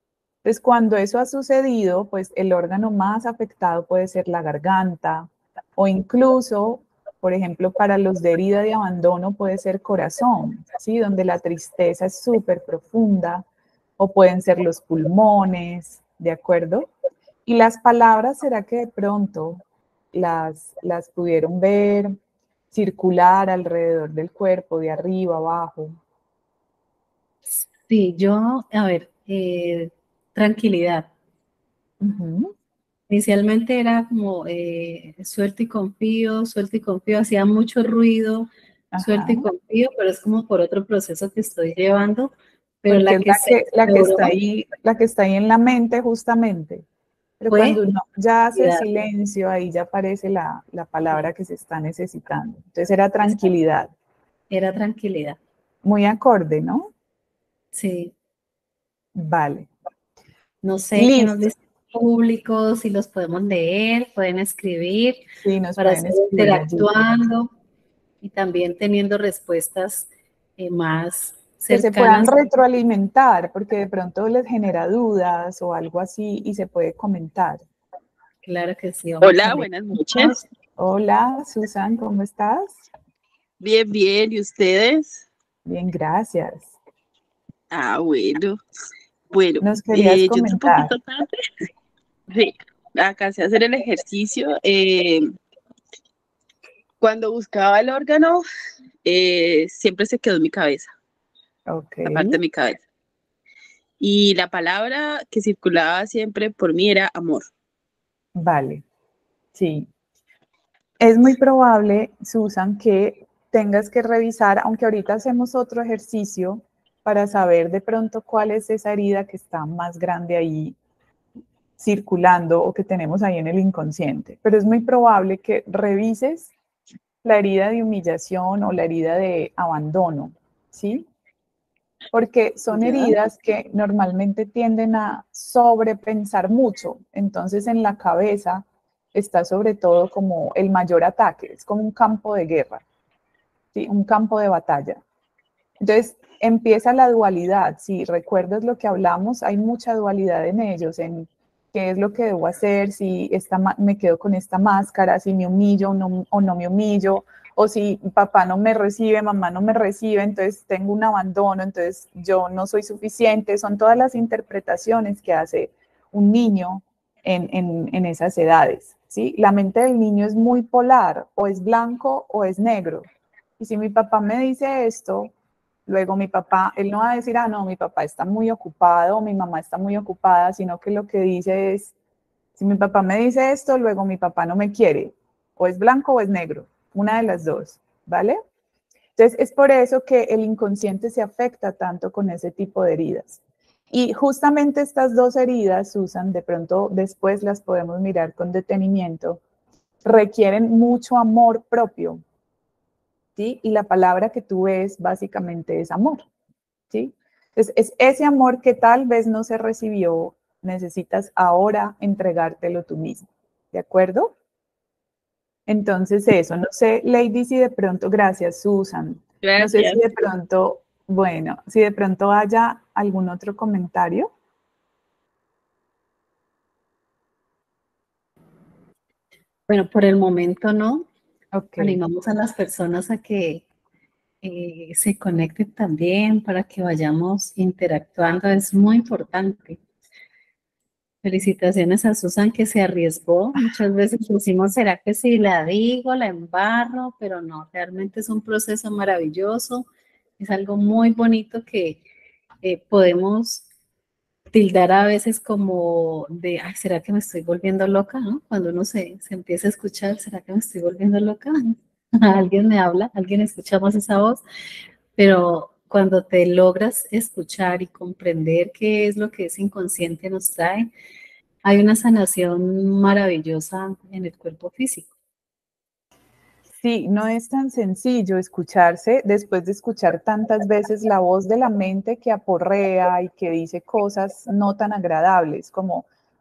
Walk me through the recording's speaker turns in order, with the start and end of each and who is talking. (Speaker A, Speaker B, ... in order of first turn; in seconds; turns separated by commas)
Speaker A: 0.4-13.4, Speaker A: 14.0-16.9, Speaker A: 17.5-22.2, Speaker A: 22.7-26.0, Speaker B: 27.5-31.1, Speaker A: 32.0-32.5, Speaker B: 33.1-44.4, Speaker A: 38.9-39.5, Speaker A: 42.9-46.9, Speaker A: 47.4-53.9, Speaker B: 47.5-47.8, Speaker B: 48.5-48.9, Speaker B: 54.5-55.4, Speaker A: 55.8-56.9, Speaker B: 57.7-58.1, Speaker A: 59.2-59.7, Speaker B: 60.6-65.2, Speaker A: 61.0-61.5, Speaker A: 65.4-67.0, Speaker B: 65.8-67.5, Speaker B: 68.2-72.4, Speaker A: 71.7-77.7, Speaker B: 78.4-79.7, Speaker C: 79.2-80.4, Speaker A: 80.1-82.8, Speaker C: 83.6-85.3, Speaker A: 85.7-86.7, Speaker C: 87.7-88.6, Speaker C: 89.3-91.3, Speaker A: 89.6-90.9, Speaker C: 92.3-95.3, Speaker C: 97.0-98.4, Speaker C: 99.0-100.9, Speaker A: 101.7-102.4, Speaker C: 102.1-102.8, Speaker C: 104.0-107.5, Speaker A: 108.4-108.8, Speaker A: 109.5-109.9, Speaker A: 111.0-120.8, Speaker A: 121.8-126.5, Speaker A: 127.2-131.1, Speaker A: 132.1-142.8, Speaker A: 143.7-145.0, Speaker A: 145.8-173.1, Speaker A: 173.6-175.3, Speaker A: 175.9-181.9, Speaker A: 182.6-188.4, Speaker A: 189.2-193.4, Speaker A: 193.9-199.4, Speaker A: 200.0-202.2, Speaker A: 203.4-206.2, Speaker A: 206.9-214.3, Speaker A: 215.7-224.3, Speaker C: 219.4-220.0, Speaker B: 229.7-231.1, Speaker A: 231.5-232.0, Speaker B: 231.8-233.7, Speaker B: 234.4-239.8, Speaker B: 241.2-249.9, Speaker B: 250.4-252.0, Speaker B: 252.6-253.7, Speaker B: 254.5-264.4, Speaker B: 265.2-270.9, Speaker B: 271.6-275.1, Speaker A: 276.8-286.1